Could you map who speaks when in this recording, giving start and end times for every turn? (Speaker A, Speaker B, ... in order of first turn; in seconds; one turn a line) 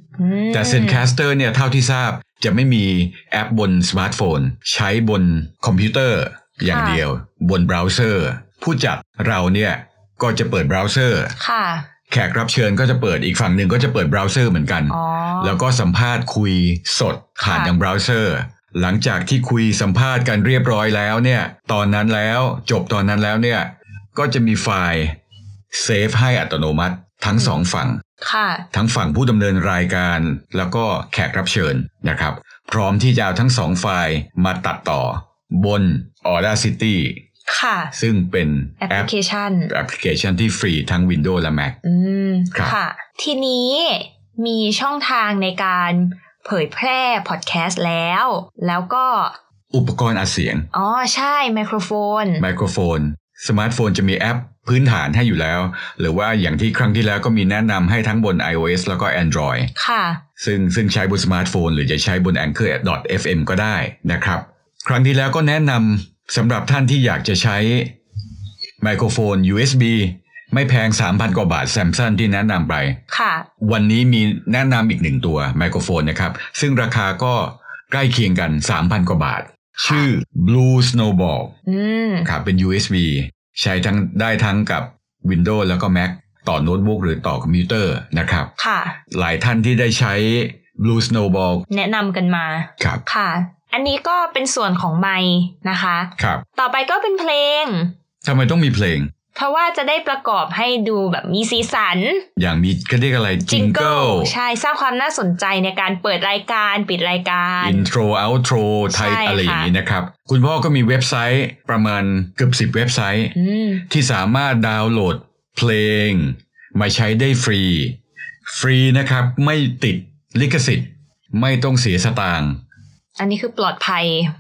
Speaker A: 0.2-1.1
Speaker B: 0.5-11.3
Speaker A: 6.6-7.0
Speaker A: 11.4-11.9
Speaker B: 12.1-25.1
Speaker A: 14.9-15.6
Speaker A: 17.4-17.7
Speaker B: 25.7-28.0
Speaker A: 28.2-28.6
Speaker B: 28.7-37.2
Speaker A: 37.5-37.9
Speaker B: 38.0-39.1
Speaker A: 38.8-39.7
Speaker B: 39.7-41.8
Speaker A: 41.8-49.4
Speaker B: 49.7-50.7
Speaker A: 50.7-52.5
Speaker B: 52.4-59.7
Speaker A: 59.8-60.2
Speaker B: 60.4-67.9
Speaker B: 68.8-73.0
Speaker A: 73.1-73.5
Speaker B: 73.6-81.5
Speaker A: 79.8-80.1
Speaker A: 81.7-82.3
Speaker B: 82.2-88.5
Speaker A: 88.6-89.0
Speaker B: 89.1-91.7
Speaker A: 91.7-97.9
Speaker B: 96.2-96.4
Speaker B: 98.2-99.1
Speaker A: 99.3-102.2
Speaker B: 102.4-104.3
Speaker A: 103.5-107.9
Speaker B: 107.6-113.3
Speaker A: 108.9-109.7
Speaker A: 113.4-113.8
Speaker B: 113.9-118.0
Speaker B: 118.5-122.6
Speaker A: 123.2-124.3